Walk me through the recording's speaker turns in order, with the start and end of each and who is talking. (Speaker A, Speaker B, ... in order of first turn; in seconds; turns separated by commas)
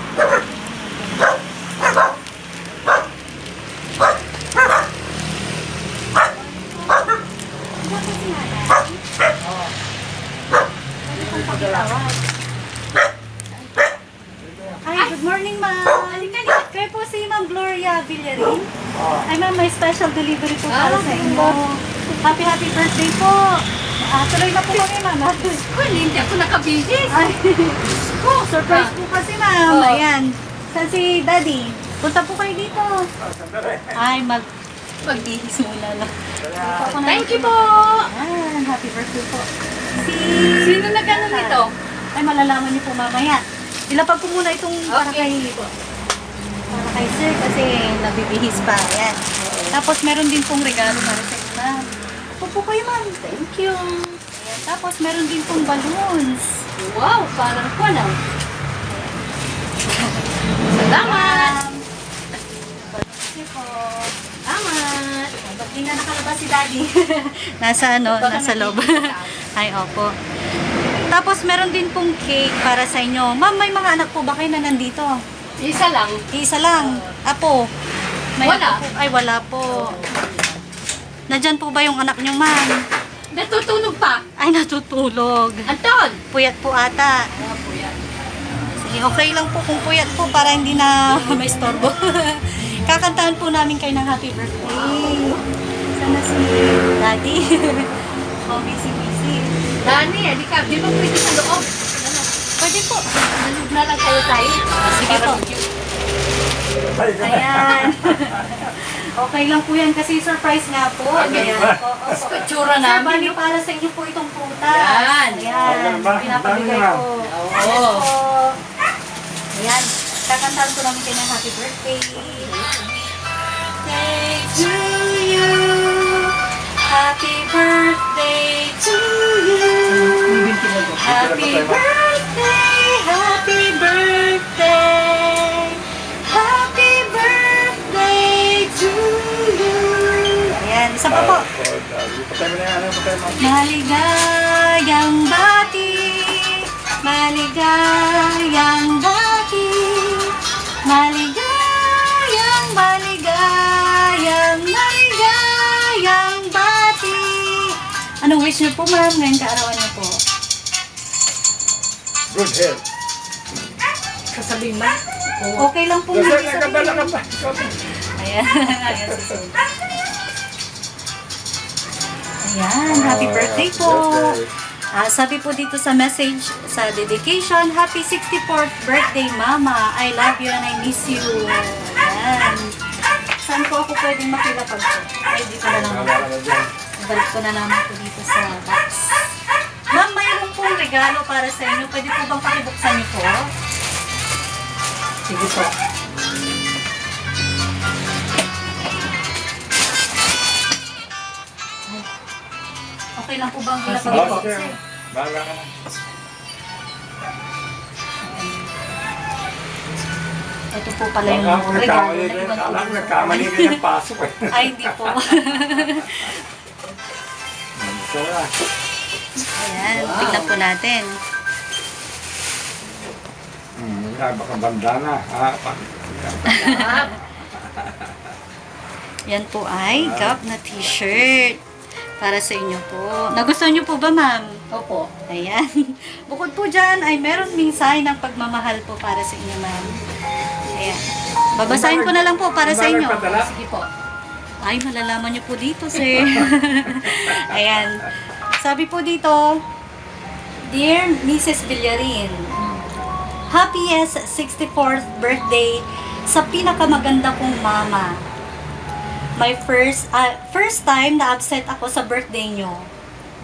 Speaker A: 0.4-2.0, Speaker A: 6.3-7.1, Speaker A: 7.8-9.0, Speaker A: 11.1-12.2, Speaker B: 11.2-11.8, Speaker B: 14.4-14.8, Speaker A: 14.8-18.7, Speaker C: 16.0-16.6, Speaker B: 18.9-19.3, Speaker A: 19.2-25.6, Speaker C: 20.7-21.6, Speaker C: 25.6-27.1, Speaker A: 27.1-33.1, Speaker C: 28.7-28.9, Speaker C: 29.7-30.0, Speaker B: 33.2-34.0, Speaker A: 34.0-34.5, Speaker A: 35.0-45.5, Speaker B: 36.4-37.0, Speaker C: 37.0-38.1, Speaker C: 40.6-41.7, Speaker C: 44.9-45.7, Speaker A: 46.7-49.2, Speaker C: 49.4-49.8, Speaker A: 49.7-51.8, Speaker A: 52.4-53.3, Speaker C: 53.3-54.2, Speaker A: 54.3-56.6, Speaker C: 56.8-58.2, Speaker A: 58.9-59.2, Speaker A: 59.9-60.3, Speaker C: 60.6-61.6, Speaker A: 61.0-61.8, Speaker A: 62.5-64.1, Speaker C: 64.5-65.4, Speaker A: 65.4-70.1, Speaker C: 68.0-69.4, Speaker A: 71.1-75.2, Speaker C: 75.6-77.1, Speaker A: 76.3-77.7, Speaker A: 78.3-80.0, Speaker C: 78.4-78.8, Speaker C: 79.7-80.6, Speaker A: 81.3-82.8, Speaker C: 83.3-84.2, Speaker A: 84.4-85.7, Speaker C: 85.7-86.2, Speaker A: 86.3-87.3, Speaker C: 87.3-88.0, Speaker A: 88.7-95.4, Speaker C: 94.6-95.4, Speaker A: 95.9-99.5, Speaker C: 99.8-102.3, Speaker A: 102.6-103.0, Speaker C: 103.3-105.7, Speaker A: 104.8-105.4, Speaker B: 106.9-108.5, Speaker A: 107.2-118.6, Speaker B: 111.1-112.2, Speaker C: 111.2-111.6, Speaker C: 112.1-113.4, Speaker C: 114.6-115.5, Speaker B: 115.6-117.0, Speaker C: 117.2-118.1, Speaker A: 119.5-122.5, Speaker C: 122.2-123.0, Speaker A: 123.7-130.4, Speaker C: 129.8-131.0, Speaker A: 131.0-141.5, Speaker B: 131.0-131.8, Speaker B: 141.1-143.5, Speaker A: 143.4-150.3, Speaker A: 150.8-160.2, Speaker B: 162.3-162.8, Speaker C: 164.3-165.7, Speaker A: 165.6-167.1, Speaker B: 166.1-167.8, Speaker A: 168.2-169.6, Speaker B: 168.9-169.2, Speaker A: 172.4-174.3, Speaker B: 172.9-174.5, Speaker A: 174.9-182.7, Speaker A: 183.4-186.3, Speaker B: 185.7-186.7, Speaker A: 187.0-189.3, Speaker A: 189.9-193.5, Speaker C: 195.3-195.7, Speaker A: 203.2-204.7, Speaker C: 203.8-204.4, Speaker B: 204.1-205.7, Speaker A: 208.3-208.7, Speaker A: 210.7-213.8, Speaker B: 211.2-215.3, Speaker A: 214.5-216.4, Speaker B: 217.8-218.5, Speaker A: 219.5-221.1, Speaker C: 219.8-220.5, Speaker B: 223.8-226.9, Speaker C: 226.5-227.1, Speaker B: 227.6-228.1, Speaker A: 229.3-231.6, Speaker B: 229.9-230.4, Speaker A: 232.2-234.5, Speaker C: 234.7-235.1, Speaker A: 235.3-239.9, Speaker A: 240.7-243.4, Speaker B: 241.7-243.5, Speaker C: 243.3-243.9, Speaker A: 244.6-249.6, Speaker A: 250.7-252.5, Speaker A: 253.5-258.2, Speaker A: 259.4-262.9